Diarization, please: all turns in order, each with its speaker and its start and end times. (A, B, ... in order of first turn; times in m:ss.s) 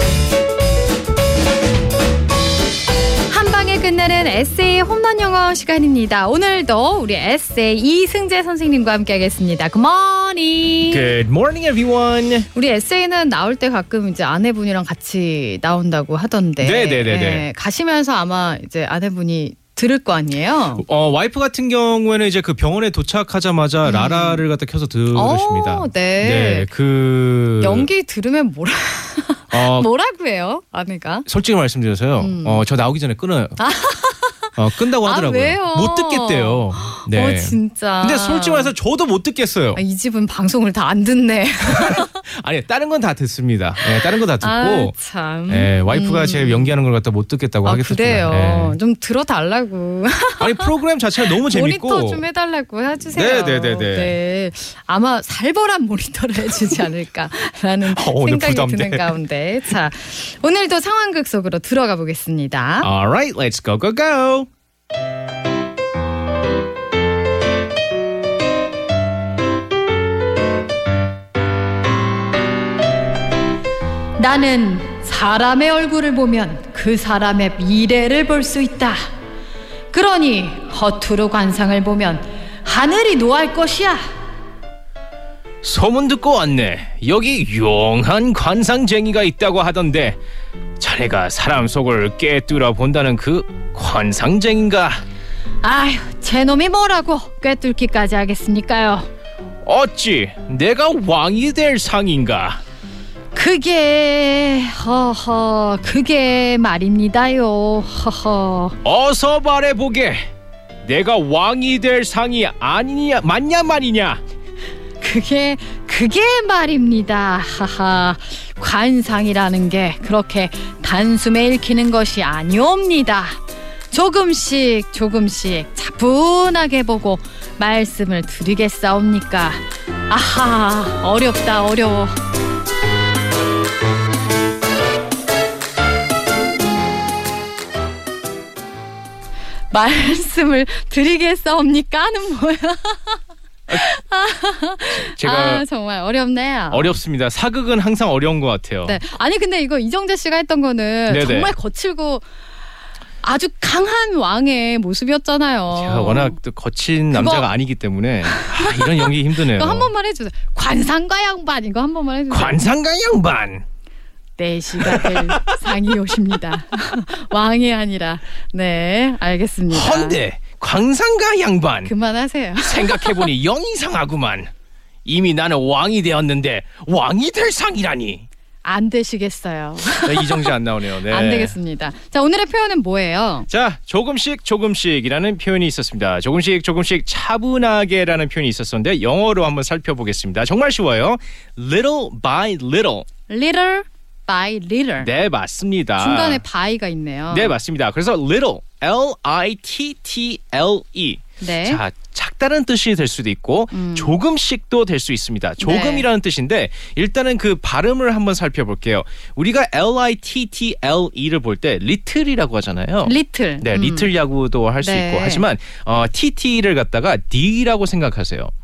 0:03.3-0:11.1 A
0:10.9-0:12.5 B
0:12.5-0:20.8 A
0:16.6-0:17.4 B
0:20.8-0:27.9 B
0:23.8-0:24.4 A
0:25.1-0:26.7 A
0:27.6-0:31.2 A
0:29.5-0:29.9 B
0:31.2-0:33.6 B
0:32.2-0:32.6 A
0:33.6-0:38.7 A
0:34.6-0:39.8 B
0:39.7-0:42.2 A
0:41.6-0:44.9 B
0:44.0-0:46.7 A
0:45.5-0:48.8 B
0:47.6-0:50.7 A
0:50.4-0:52.2 B
0:51.2-1:02.9 A
0:53.1-0:54.2 B
0:57.8-0:59.1 B
1:02.8-1:04.5 B
1:14.2-1:19.0 A
1:19.9-1:24.0 A
1:25.6-1:30.2 B
1:30.8-1:35.0 B
1:35.6-1:39.1 A
1:39.6-1:42.6 B
1:43.3-1:48.8 A
1:48.8-1:50.2 B
1:50.8-1:54.2 B
1:55.0-2:03.4 A
2:03.9-2:12.1 A
2:19.7-2:26.9 A
2:24.9-2:25.6 B
2:26.7-2:29.0 B
2:28.8-2:32.2 A
2:31.1-2:31.5 B
2:33.2-2:36.4 A
2:35.7-2:39.9 B
2:37.1-2:37.5 A
2:38.3-2:42.6 A
2:42.3-2:43.6 B
2:44.4-2:50.2 A
2:44.8-2:45.4 B
2:49.7-2:51.9 B
2:51.8-2:53.3 A
2:52.6-2:54.5 B
2:55.0-2:58.2 B
2:58.6-3:03.5 A
3:00.0-3:01.5 B
3:03.5-3:13.1 B
3:13.3-3:15.1 A
3:15.0-3:16.4 B
3:16.0-3:17.5 A
3:17.3-3:38.5 B
3:21.4-3:21.8 A
3:23.7-3:24.1 A
3:25.6-3:26.1 A
3:33.0-3:34.1 A
3:34.8-3:35.4 A